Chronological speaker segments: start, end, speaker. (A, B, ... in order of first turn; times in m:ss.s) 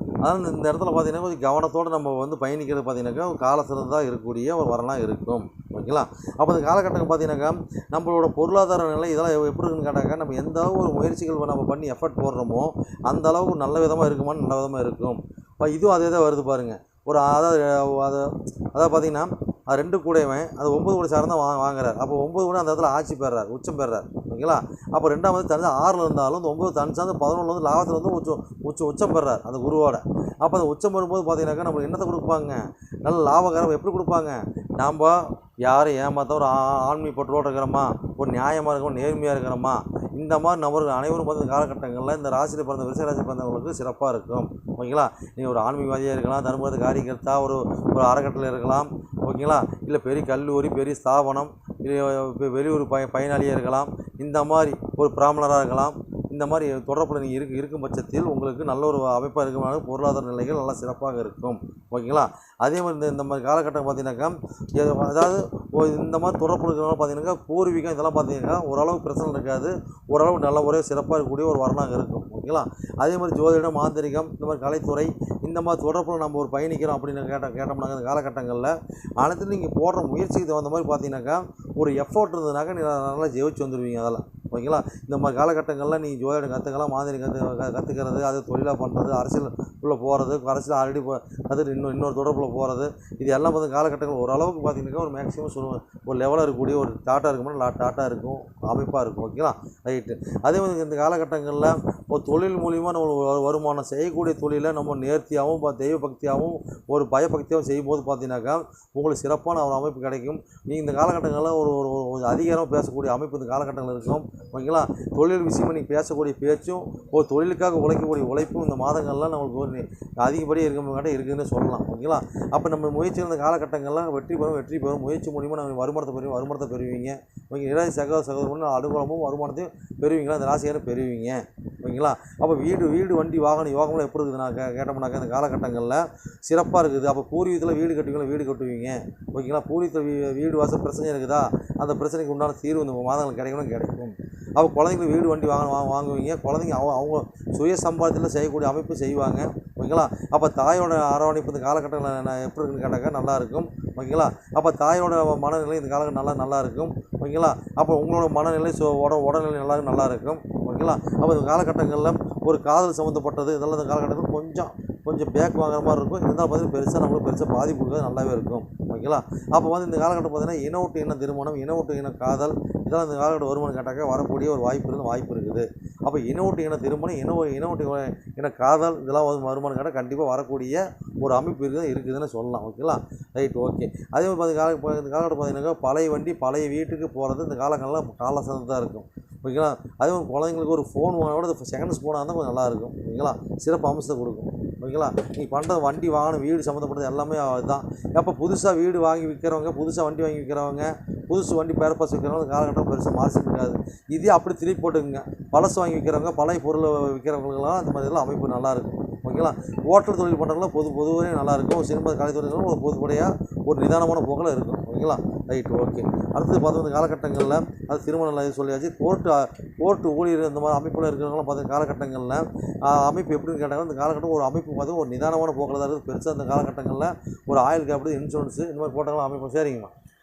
0:00.2-3:49.9 A